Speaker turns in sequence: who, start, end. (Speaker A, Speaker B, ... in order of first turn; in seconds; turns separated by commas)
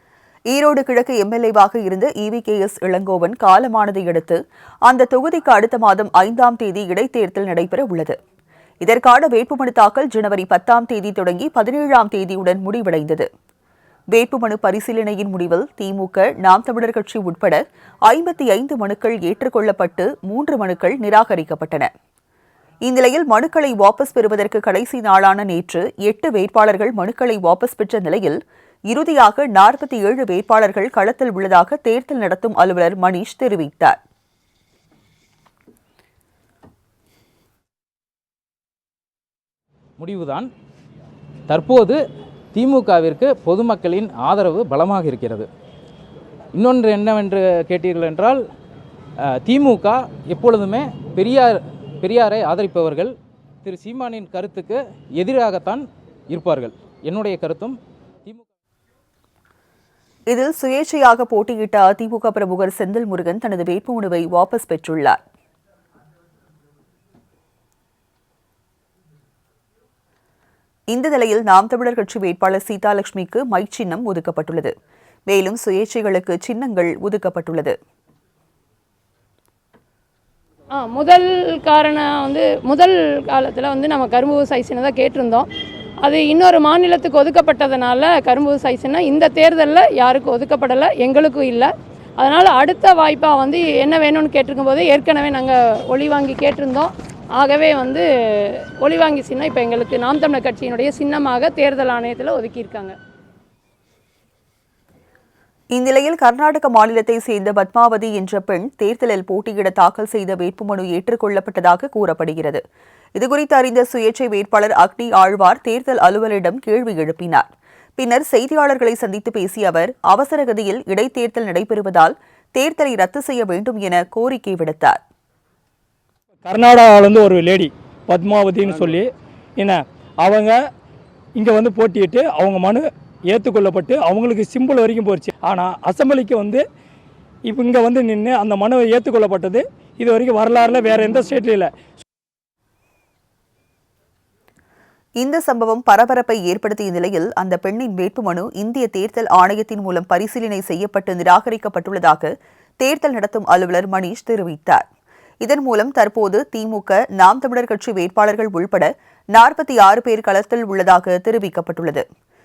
Speaker A: 0.5-8.2, Speaker A: 8.8-13.3, Speaker A: 14.1-21.9, Speaker A: 22.8-34.0, Speaker B: 40.0-40.5, Speaker B: 41.5-42.0, Speaker B: 42.5-45.5, Speaker B: 46.5-48.4, Speaker B: 49.4-53.1, Speaker B: 53.6-58.5, Speaker A: 60.3-65.2, Speaker A: 70.9-74.7, Speaker A: 75.3-77.8, Speaker C: 80.8-85.5, Speaker C: 86.0-103.0, Speaker A: 105.7-112.6, Speaker A: 113.2-125.0, Speaker D: 126.5-129.1, Speaker D: 129.6-130.6, Speaker D: 131.4-136.6, Speaker D: 137.5-141.7, Speaker A: 145.2-154.8, Speaker A: 155.4-162.1